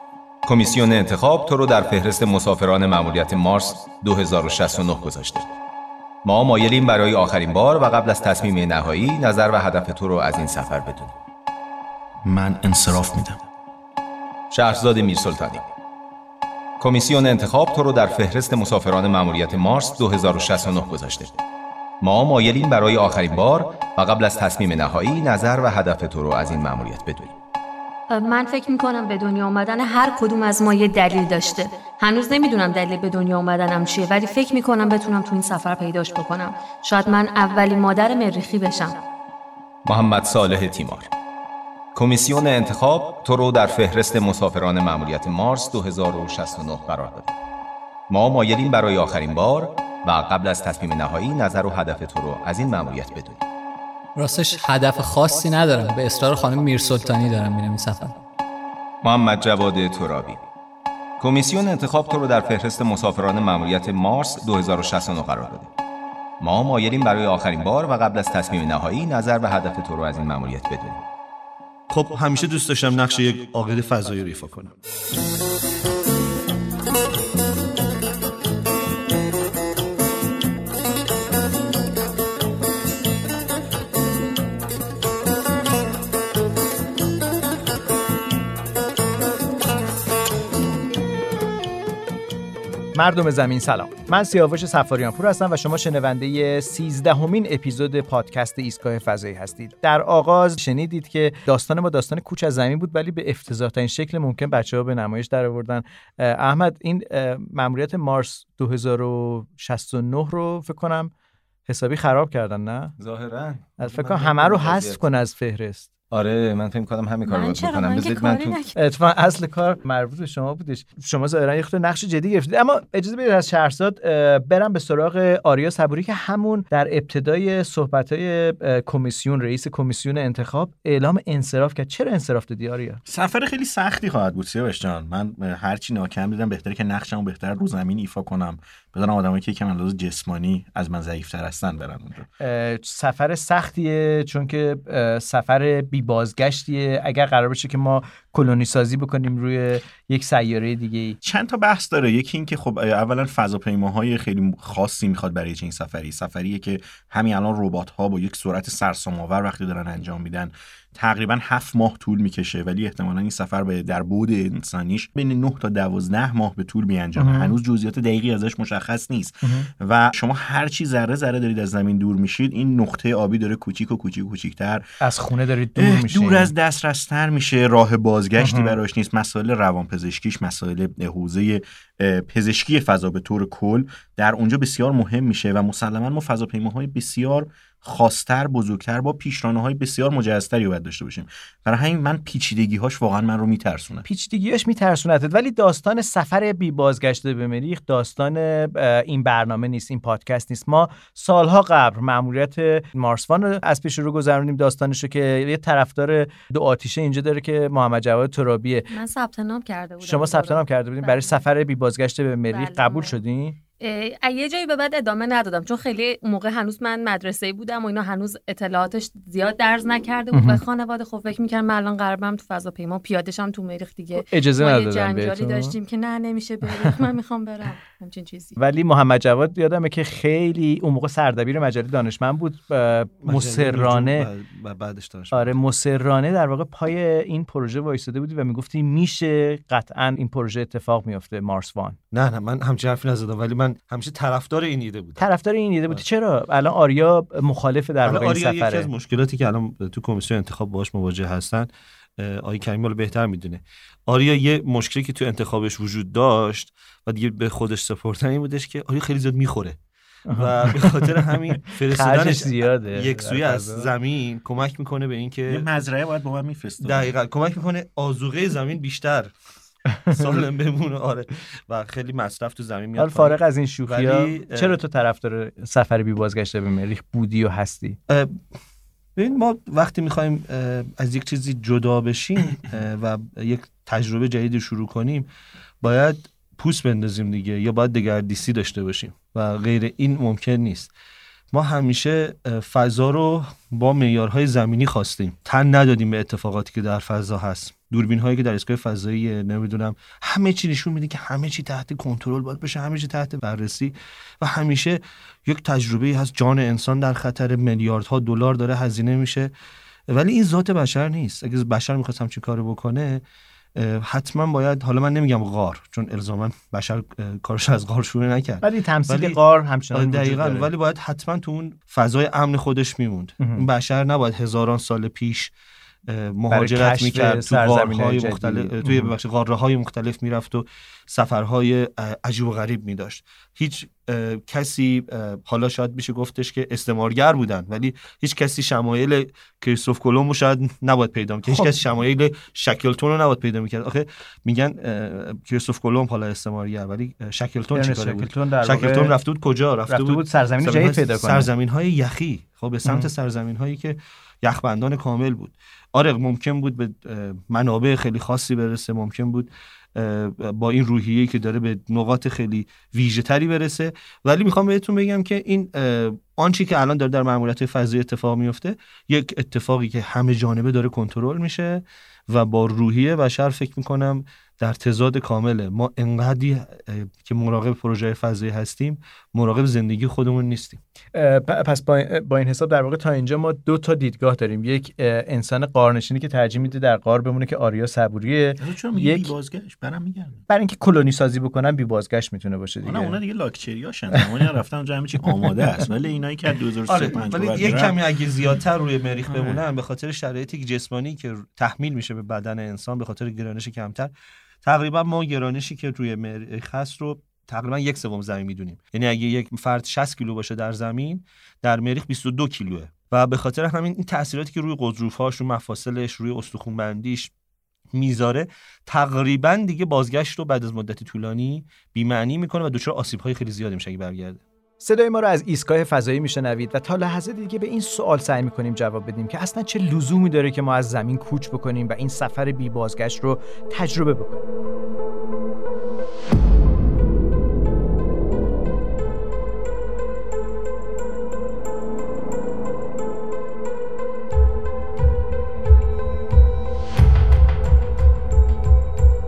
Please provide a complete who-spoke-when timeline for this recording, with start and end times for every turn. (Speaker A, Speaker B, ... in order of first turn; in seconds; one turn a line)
Speaker A: 0.4-5.5
Speaker A: 6.2-11.1
Speaker B: 12.2-13.4
Speaker A: 14.5-15.7
Speaker A: 16.8-21.4
Speaker A: 22.0-27.3
Speaker C: 28.1-39.0
Speaker A: 39.8-41.1
Speaker A: 41.9-47.3
Speaker A: 48.1-53.5
Speaker D: 54.1-58.2
Speaker A: 59.0-60.4
Speaker A: 61.2-65.7
Speaker A: 66.4-71.0
Speaker E: 71.9-74.7
Speaker F: 92.9-111.1
Speaker F: 111.7-112.9
Speaker A: 113.0-115.0
Speaker F: 113.8-115.9
Speaker A: 116.1-118.6
Speaker C: 117.2-118.8
Speaker F: 118.7-133.0
Speaker B: 133.0-142.3
Speaker F: 142.4-151.2
Speaker B: 151.2-174.8
Speaker F: 167.2-167.6
Speaker F: 169.4-169.7
Speaker F: 175.0-176.5
Speaker B: 175.7-194.1
Speaker F: 178.4-178.8
Speaker F: 194.1-208.9
Speaker C: 208.9-211.4
Speaker F: 210.0-213.6
Speaker C: 212.5-213.2
Speaker C: 213.8-228.6
Speaker F: 220.3-220.6
Speaker F: 224.1-225.8
Speaker F: 228.6-234.3
Speaker E: 233.2-235.6
Speaker F: 235.3-242.0
Speaker E: 242.1-245.2
Speaker F: 245.2-248.9
Speaker E: 248.0-259.8
Speaker F: 260.3-261.2
Speaker E: 260.3-265.6
Speaker F: 261.9-263.9
Speaker B: 265.5-267.1
Speaker E: 266.8-269.3
Speaker F: 269.9-270.4
Speaker E: 270.1-274.8
Speaker F: 273.0-278.0
Speaker E: 278.1-278.3
Speaker E: 279.2-285.3
Speaker E: 285.8-290.9
Speaker E: 291.5-309.5
Speaker E: 310.1-313.2
Speaker E: 313.8-319.4
Speaker F: 318.6-320.7
Speaker E: 319.9-325.5
Speaker F: 323.4-323.6
Speaker E: 326.1-380.8
Speaker F: 326.5-329.1
Speaker F: 341.5-341.7
Speaker F: 347.7-349.1
Speaker F: 349.9-351.5
Speaker F: 352.8-353.1
Speaker F: 381.1-389.3
Speaker B: 388.6-390.4
Speaker F: 390.5-393.2
Speaker B: 392.8-398.0
Speaker E: 396.9-404.1
Speaker E: 404.6-417.3
Speaker E: 417.9-424.4
Speaker F: 424.8-434.4